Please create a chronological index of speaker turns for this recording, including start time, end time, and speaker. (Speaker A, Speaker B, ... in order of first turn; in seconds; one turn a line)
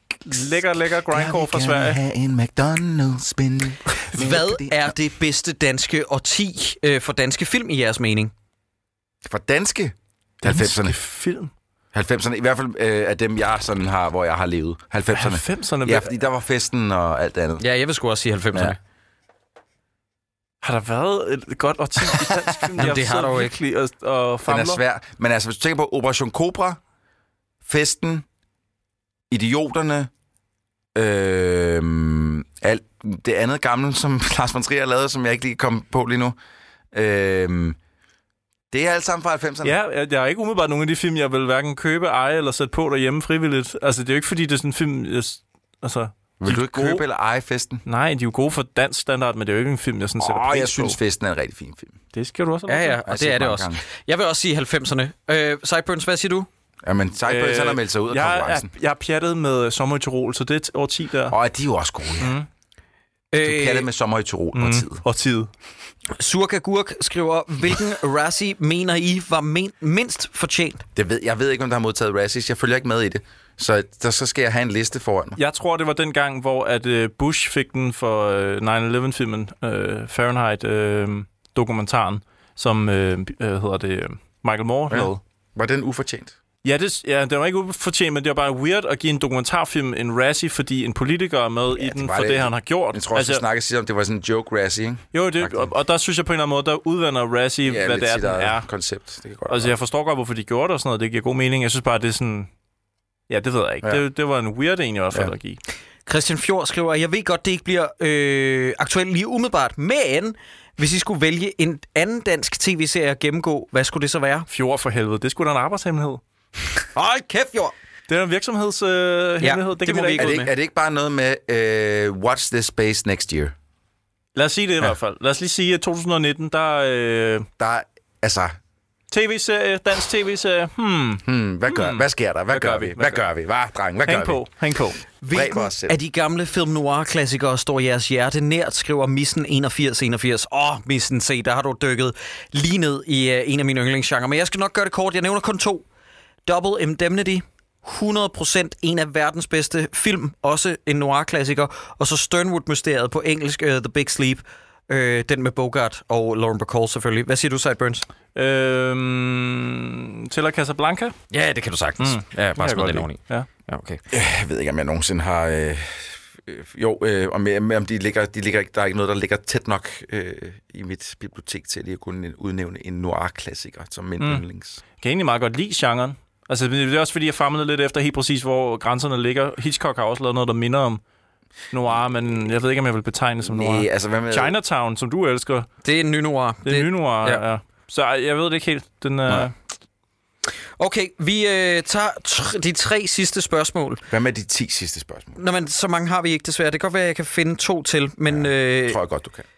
Speaker A: 0.3-2.0
Speaker B: 1.1-4.9
Speaker C: 4.1-8.3
Speaker B: 9.3-11.0
Speaker A: 10.4-11.5
Speaker B: 11.9-17.6
Speaker A: 15.1-16.1
Speaker C: 17.6-18.8
Speaker A: 20.6-24.8
Speaker C: 22.8-23.5
Speaker B: 24.5-26.8
Speaker B: 27.6-28.3
Speaker B: 29.3-30.1
Speaker B: 30.9-36.4
Speaker B: 36.9-37.8
Speaker B: 38.7-39.8
Speaker A: 39.6-47.0
Speaker B: 46.4-47.8
Speaker A: 47.9-51.0
Speaker B: 50.2-52.0
Speaker A: 52.1-53.0
Speaker C: 52.7-56.5
Speaker B: 53.1-53.8
Speaker B: 56.8-58.7
Speaker A: 57.3-61.4
Speaker B: 61.3-62.4
Speaker A: 62.2-62.5
Speaker C: 63.3-63.9
Speaker B: 63.4-65.0
Speaker A: 64.5-65.5
Speaker C: 66.2-70.8
Speaker B: 71.0-75.4
Speaker A: 75.4-85.2
Speaker B: 84.9-86.3
Speaker A: 86.6-93.4
Speaker B: 91.8-95.7
Speaker A: 95.1-98.7
Speaker B: 97.7-99.7
Speaker A: 99.5-102.5
Speaker A: 103.3-105.6
Speaker C: 106.1-114.5
Speaker A: 114.5-116.2
Speaker C: 117.0-117.7
Speaker A: 118.1-120.4
Speaker C: 119.4-120.5
Speaker B: 120.2-123.5
Speaker A: 124.3-127.5
Speaker B: 127.6-128.6
Speaker A: 129.1-133.2
Speaker B: 131.2-134.4
Speaker A: 134.1-135.0
Speaker C: 135.2-145.8
Speaker B: 135.3-135.9
Speaker C: 146.5-158.1
Speaker A: 158.3-161.2
Speaker C: 161.3-164.0
Speaker A: 162.0-163.5
Speaker B: 164.1-174.8
Speaker A: 175.0-181.0
Speaker A: 181.7-185.7
Speaker B: 183.4-184.6
Speaker C: 185.8-187.4
Speaker A: 186.7-189.6
Speaker C: 190.8-194.0
Speaker B: 194.1-195.4
Speaker C: 195.4-199.0
Speaker B: 198.3-199.4